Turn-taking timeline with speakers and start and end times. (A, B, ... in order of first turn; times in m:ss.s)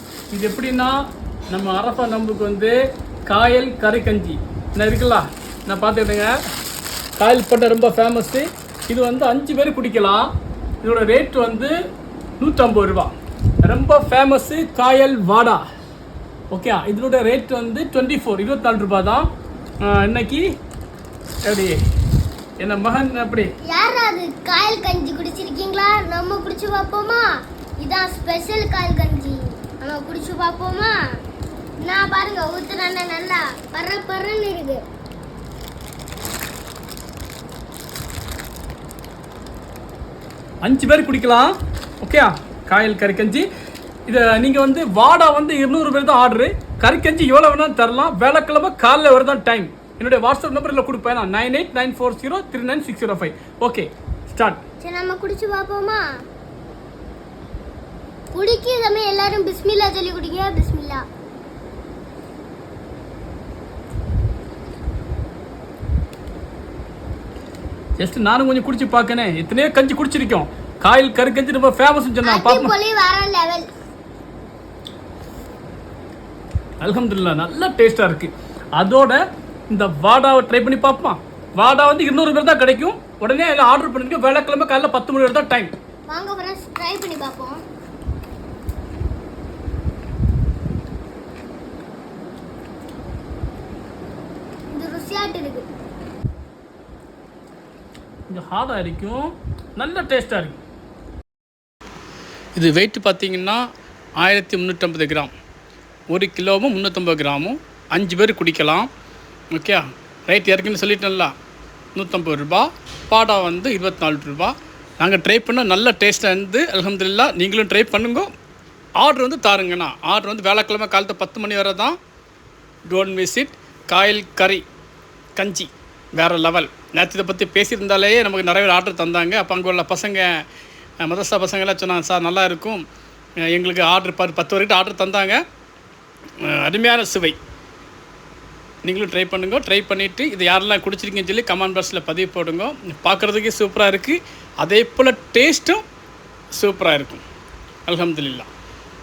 0:00.3-0:01.0 A
0:01.5-0:02.7 A
0:03.3-0:06.3 A
0:07.2-0:10.3 A
0:10.8-0:11.8 A
0:12.4-0:13.1 A
0:13.6-0:15.6 A
0:16.5-0:19.3 A
0:19.8-0:20.5 A
0:21.4-0:21.8 A
0:22.6-0:23.5 A
0:23.6-0:31.0 B
0:31.8-0:34.8 B
0:40.6-0:43.5 A
0:44.1-0:54.6 A
0:54.8-0:56.0 B
0:58.3-1:01.0 B
1:08.0-1:12.7 A
1:12.2-1:13.7 B
1:16.8-1:25.7 A
1:26.1-1:27.6 B
1:34.7-1:35.7 B
1:38.3-1:40.6 A
1:42.6-1:43.6 A
1:44.2-1:45.3 A
1:46.1-1:48.9 A
1:49.5-1:51.3 A
1:52.0-1:58.3 A
1:59.0-2:02.0 A
2:02.9-2:04.6 A
2:05.4-2:10.4 A
2:11.0-2:12.8 A
2:13.5-2:15.4 A
2:16.4-2:17.4 A
2:18.8-2:25.8 A
2:26.6-2:27.2 A
2:27.9-2:28.5 A